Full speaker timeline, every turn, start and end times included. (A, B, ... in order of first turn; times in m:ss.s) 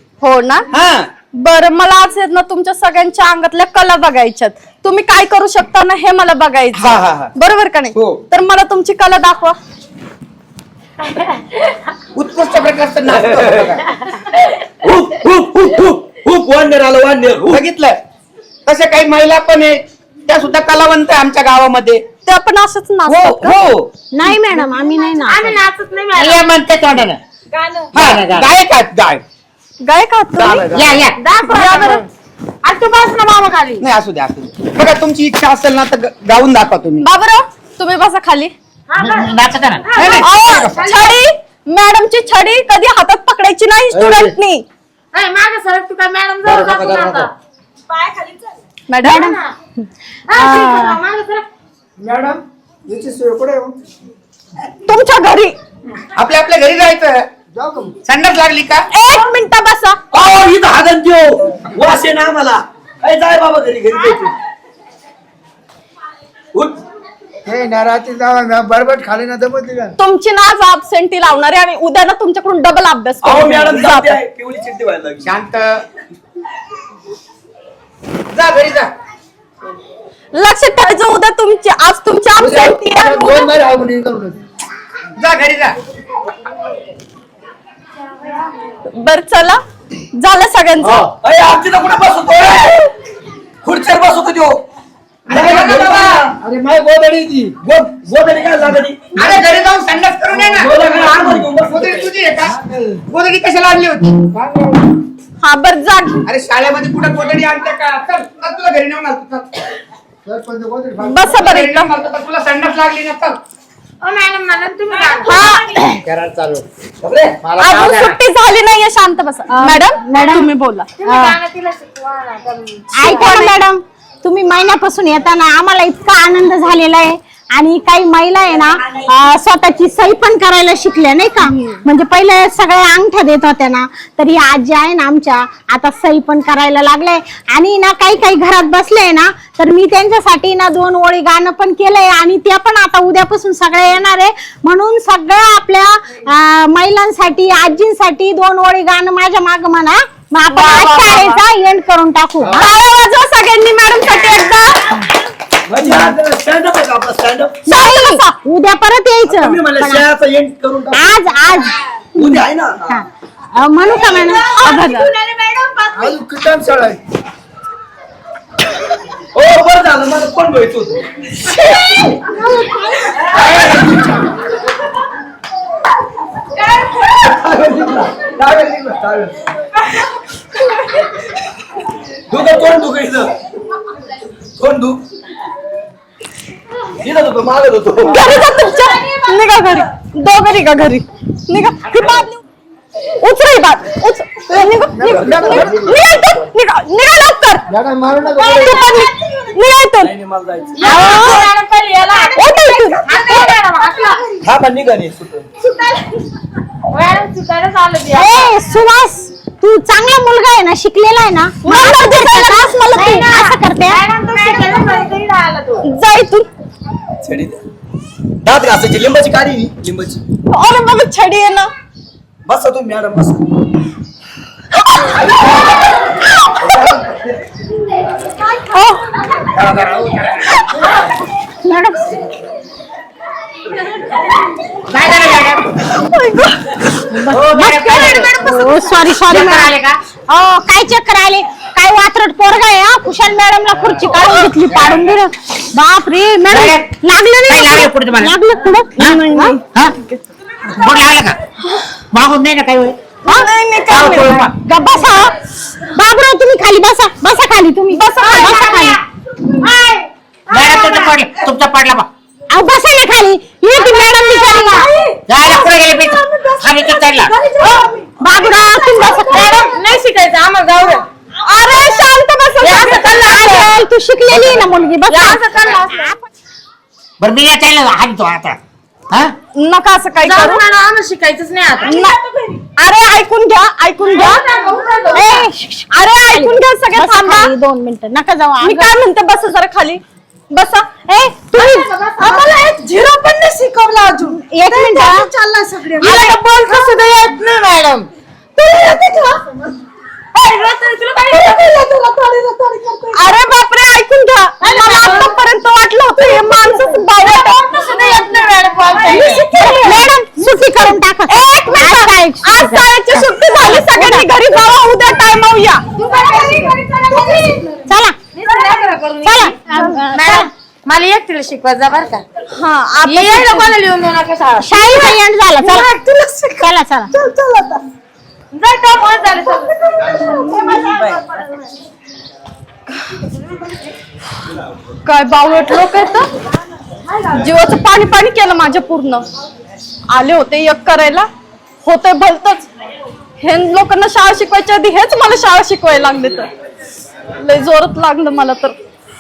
0:00.2-0:00.7 A
0:00.7-0:01.1 B
0:01.4-0:09.6 A
0:06.7-0:07.3 B
0:07.9-0:08.2 B
0:12.1-0:14.0 B
0:13.2-0:13.6 C
0:14.4-0:17.6 C
0:17.5-0:18.0 B
0:18.7-0:22.0 B
0:22.3-0:23.7 A
0:23.1-0:23.9 B
0:24.1-0:25.6 D
0:25.2-0:26.5 E
0:26.1-0:27.2 F
0:27.5-0:27.9 E
0:27.9-0:28.5 F
0:27.9-0:29.2 B
0:29.8-0:30.9 A
0:30.7-0:31.2 F
0:31.2-0:32.1 E
0:31.5-0:32.0 A
0:32.6-0:33.8 E
0:33.8-0:37.1 B
0:37.0-0:38.5 A
0:38.9-0:41.2 E
0:39.0-0:40.7 F
0:40.0-0:40.4 B
0:40.2-0:44.6 A
0:43.9-0:44.3 F
0:45.1-0:47.3 E
0:46.4-0:47.3 F
0:48.9-0:49.3 A
0:49.0-0:49.4 D
0:49.2-0:49.5 E
0:50.3-0:51.5 E
0:50.3-0:51.0 D
0:52.0-0:53.8 G
0:54.9-0:55.6 A
0:56.2-0:57.3 B
0:57.5-0:58.0 G
0:58.0-0:58.9 B
0:58.9-1:00.0 A
1:00.1-1:04.3 C
1:07.5-1:10.0 G
1:10.0-1:14.2 A
1:13.2-1:15.3 C
1:15.2-1:15.8 B
1:18.3-1:18.9 B
1:20.3-1:23.5 A
1:22.4-1:24.4 G
1:25.2-1:25.8 B
1:28.9-1:29.6 A
1:30.2-1:31.1 A
1:30.8-1:32.9 C
1:33.6-1:34.6 C
1:35.3-1:36.2 B
1:35.3-1:36.3 C
1:36.4-1:37.6 G
1:37.6-1:39.2 C
1:39.1-1:44.3 B
1:40.3-1:42.1 C
1:42.5-1:43.0 G
1:44.3-1:44.8 G
1:45.4-1:46.2 A
1:46.3-1:49.6 B
1:50.2-1:51.2 G
1:51.0-1:51.9 A
1:51.2-1:53.4 B
1:54.0-1:55.8 E
1:55.2-1:55.8 A
1:55.8-1:56.6 F
1:57.0-1:57.4 C
1:57.4-1:58.2 F
1:57.6-2:00.9 A
1:59.5-2:00.5 D
2:01.0-2:02.9 E
2:01.0-2:01.4 D
2:03.0-2:32.6 D
2:03.0-2:03.6 A
2:30.5-2:31.4 A
2:32.5-2:34.9 A
2:35.7-2:37.6 C
2:37.7-2:40.1 D
2:37.7-2:38.3 A
2:39.3-2:41.2 C
2:40.9-2:41.8 D
2:42.2-2:43.0 C
2:42.9-2:45.0 D
2:44.0-2:46.2 E
2:44.6-2:45.1 A
2:45.9-2:47.0 G
2:49.4-2:51.0 C
2:52.2-2:53.2 D
2:53.4-2:53.9 C
2:57.0-2:59.4 C
3:02.3-3:03.4 C
3:04.6-3:05.0 C
3:07.0-3:08.3 C
3:08.1-3:12.4 A
3:13.2-3:17.6 A
3:14.6-3:16.0 G
3:15.1-3:15.8 C
3:17.7-3:18.9 G
3:18.4-3:20.1 A
3:18.6-3:19.1 E
3:20.0-3:20.8 C
3:20.8-3:24.4 E
3:20.8-3:21.5 A
3:20.8-3:21.4 D
3:22.4-3:23.5 A
3:24.4-3:25.5 C
3:25.6-3:26.2 E
3:26.9-3:28.5 E
3:28.1-3:35.0 D
3:31.6-3:33.2 A
3:32.9-3:35.9 E
3:35.8-3:36.5 A
3:37.2-3:37.6 C
3:38.4-3:40.2 C
3:40.5-3:41.7 A
3:42.5-3:43.4 C
3:46.4-3:46.9 A
3:46.6-3:47.2 C
3:49.5-3:50.5 F
3:51.6-3:52.0 D
3:54.9-3:55.6 F
3:55.9-3:56.6 A
3:57.1-3:59.8 D
3:57.3-3:58.6 F
3:59.3-4:00.0 F
4:00.3-4:09.6 D
4:04.1-4:04.5 A
4:04.7-4:05.1 F
4:06.5-4:06.9 F
4:07.5-4:08.4 F
4:09.0-4:10.2 A
4:10.7-4:11.4 F
4:12.1-4:13.0 F
4:13.2-4:14.5 A
4:13.9-4:14.5 F
4:14.6-4:15.3 D
4:15.9-4:19.0 D
4:17.9-4:18.9 A
4:18.2-4:18.6 E
4:19.6-4:21.2 E
4:20.5-4:22.1 F
4:22.5-4:24.9 D
4:23.7-4:31.0 E
4:25.3-4:27.4 F
4:27.6-4:27.9 A
4:27.7-4:29.7 D
4:31.5-4:33.7 A
4:32.6-4:33.2 E
4:32.8-4:36.3 D
4:34.3-4:34.6 F
4:35.1-4:35.4 A
4:35.2-4:36.1 E
4:37.2-4:38.6 F
4:39.1-4:39.4 F
4:39.6-4:40.6 A
4:40.2-4:42.0 E
4:41.8-4:42.2 A
4:42.8-4:44.4 A
4:44.0-4:45.4 E
4:45.1-4:49.0 D
4:45.9-4:47.5 A
4:48.6-4:50.9 A
4:51.1-4:51.9 D
4:51.5-4:52.7 E
4:53.6-4:54.1 E
4:54.2-4:55.3 D
4:55.3-4:58.0 E
4:56.0-4:56.4 A
4:56.0-4:56.7 D
4:58.9-4:59.2 E
5:00.3-5:02.8 E
5:03.1-5:08.4 A
5:04.6-5:05.4 E
5:07.2-5:09.4 E
5:08.9-5:10.1 A
5:09.4-5:14.3 D
5:11.3-5:15.8 A
5:16.0-5:17.4 E
5:17.8-5:18.2 D
5:18.3-5:19.6 E
5:19.2-5:20.5 D
5:19.7-5:20.0 A
5:20.1-5:22.2 E
5:22.5-5:23.8 A
5:23.0-5:25.1 E
5:24.6-5:25.9 D
5:26.6-5:27.1 D
5:28.5-5:29.8 E
5:30.3-5:30.8 D
5:35.1-5:36.3 A
5:37.3-5:39.3 A
5:40.1-5:41.3 A
5:41.8-5:42.7 A
5:43.4-5:46.5 A
5:47.4-5:48.8 A